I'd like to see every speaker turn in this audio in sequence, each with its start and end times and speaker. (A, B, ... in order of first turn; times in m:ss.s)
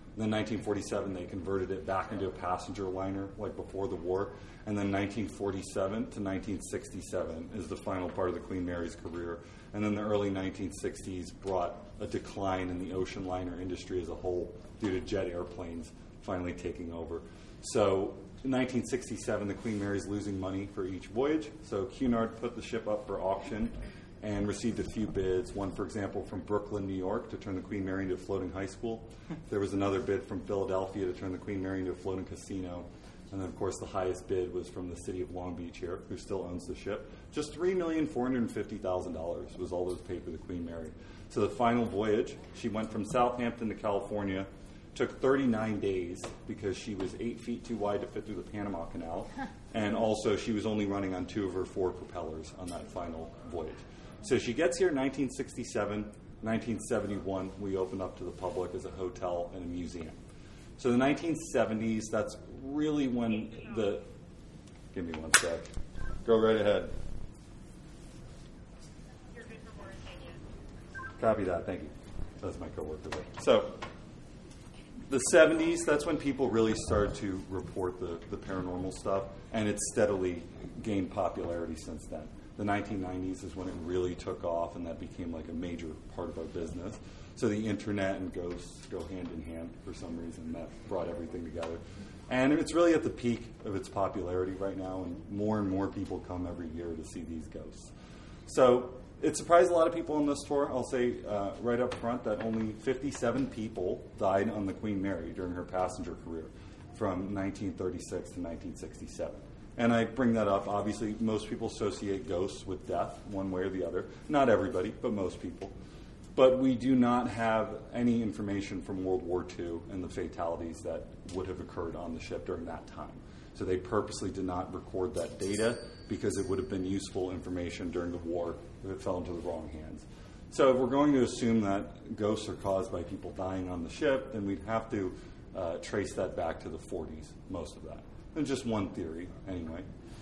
0:00.2-1:00.2 A
1:00.8-1:04.1 A
1:04.9-1:05.6 A
1:06.2-1:06.9 A
1:11.2-1:13.8 A
1:15.1-1:37.9 A
1:38.4-1:55.7 A
1:56.3-2:19.8 A